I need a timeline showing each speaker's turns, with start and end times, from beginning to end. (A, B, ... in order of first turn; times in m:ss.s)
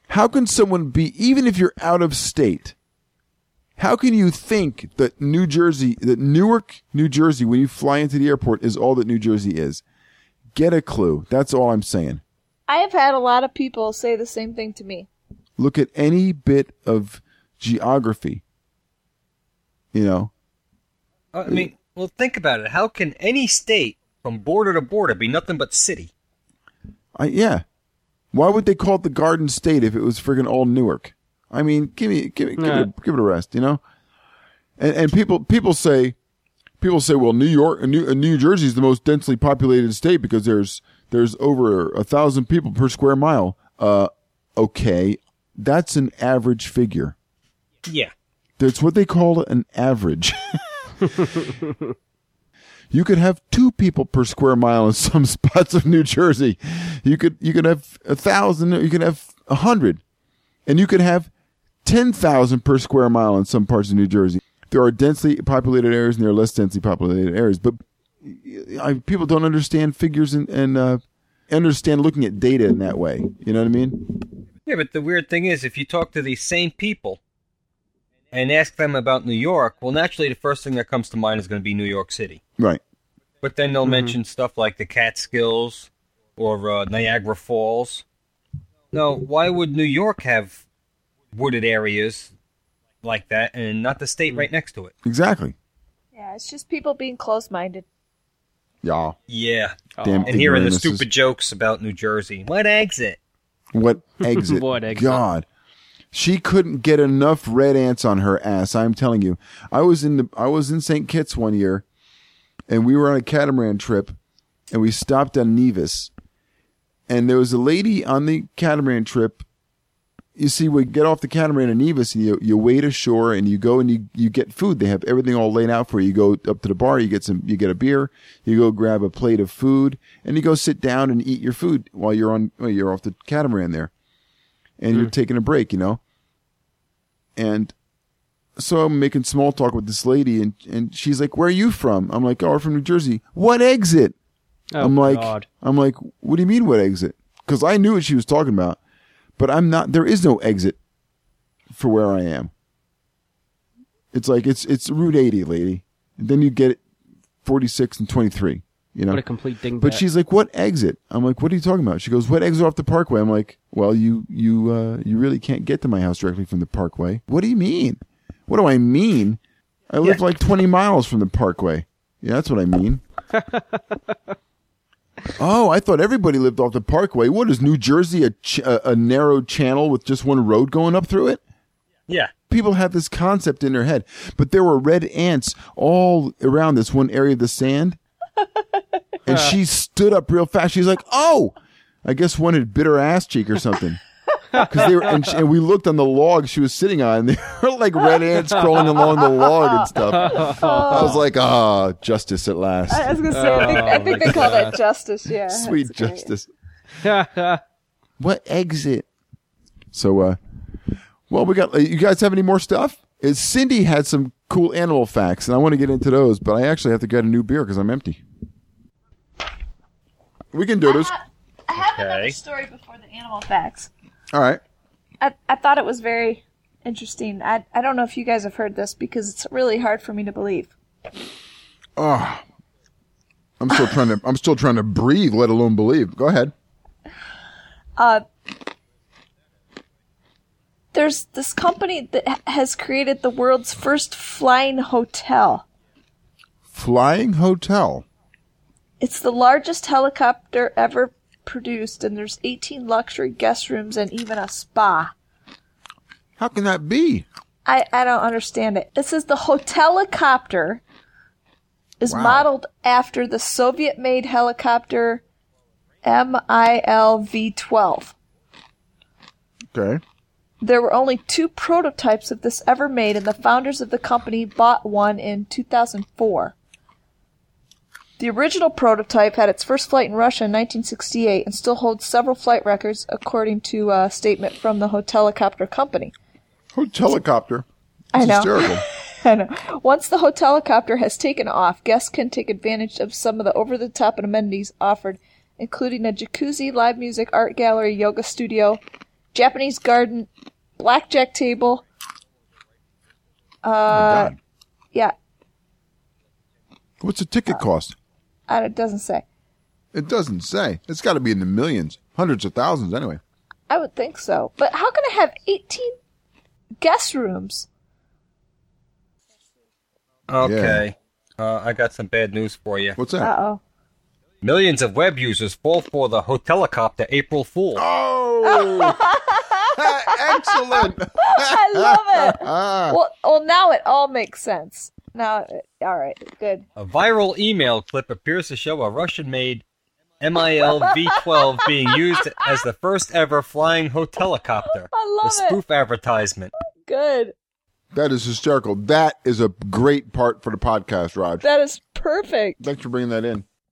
0:00.1-0:02.8 A
0:03.8-0:09.8 A
0:10.5-0:12.2 A
0:12.7-0:15.1 B
0:15.6-0:18.4 A
0:19.9-0:20.3 A
0:21.3-0:26.1 C
0:27.2-0:27.6 A
0:28.3-0:33.8 A
0:32.6-0:32.9 D
0:34.8-0:36.2 A
0:36.8-0:47.2 A
0:47.8-0:48.1 C
0:48.6-0:51.6 A
0:52.9-1:00.0 A
1:00.7-1:01.3 A
1:01.8-1:14.3 A
1:14.7-1:17.2 C
1:18.3-1:22.4 C
1:23.4-1:28.0 C
1:23.8-1:24.2 D
1:28.9-1:30.6 C
1:31.3-1:32.3 C
1:33.0-1:34.9 C
1:35.0-1:35.6 A
1:36.1-1:37.8 B
1:38.8-1:39.2 A
1:39.3-1:43.2 C
1:40.0-1:40.4 D
1:40.0-1:41.1 A
1:43.7-1:45.5 A
1:44.2-1:45.2 D
1:46.1-1:51.8 A
1:52.7-1:54.2 A
1:54.7-1:56.1 A
1:57.1-1:59.4 A
2:00.4-2:13.9 A
2:14.8-2:16.0 A
2:17.4-2:17.7 A
2:18.6-2:24.2 A
2:24.7-2:25.5 D
2:24.8-2:28.8 A
2:29.4-2:30.8 A
2:31.7-2:32.5 A
2:34.1-2:36.8 A
2:37.4-2:39.2 A
2:39.1-2:40.0 D
2:39.8-2:53.0 A
2:53.4-2:54.2 D
2:55.4-3:01.4 A
3:02.5-3:08.0 A
3:09.2-3:14.0 A
3:09.3-3:09.5 D
3:14.5-3:15.3 D
3:14.5-3:23.2 A
3:19.0-3:19.6 B
3:20.1-3:21.2 D
3:20.3-3:21.2 B
3:22.9-3:26.3 B
3:23.3-3:24.8 D
3:24.0-3:24.7 C
3:25.5-3:26.5 A
3:27.0-3:27.6 D
3:28.2-3:29.1 A
3:29.9-3:30.4 A
3:31.3-3:38.2 A
3:40.5-3:41.2 A
3:40.9-3:43.9 B
3:41.8-3:42.4 C
3:44.3-3:44.6 A
3:45.2-3:50.7 B
3:52.0-3:52.4 A
3:53.6-3:56.5 A
3:58.0-3:58.2 B
4:00.9-4:05.6 B
4:06.7-4:08.0 A
4:09.0-4:15.1 B
4:16.4-4:17.3 A
4:17.7-4:20.8 B
4:22.0-4:25.2 B
4:22.1-4:22.5 A
4:26.0-4:28.1 B
4:29.7-4:30.0 A
4:30.6-4:36.5 B
4:38.2-4:46.1 B
4:46.7-4:48.8 A
4:48.1-4:58.8 B
4:59.3-5:01.8 B
5:03.6-5:04.3 B
5:03.9-5:04.4 A
5:07.0-5:08.0 A
5:08.5-5:09.2 B
5:09.9-5:13.2 A
5:13.7-5:16.0 B
5:16.8-5:17.7 B
5:20.3-5:23.0 C
5:20.4-5:20.8 A
5:23.0-5:23.3 A
5:23.2-5:23.6 B
5:24.4-5:27.8 C
5:27.8-5:29.2 A
5:28.4-5:36.6 B
5:29.7-5:33.0 A
5:36.8-5:39.6 C
5:40.2-5:46.5 C
5:40.6-5:41.1 B
5:44.9-5:45.6 B
5:46.8-5:47.4 B
5:47.9-5:51.4 A
5:51.4-5:52.6 B
5:52.6-5:53.4 A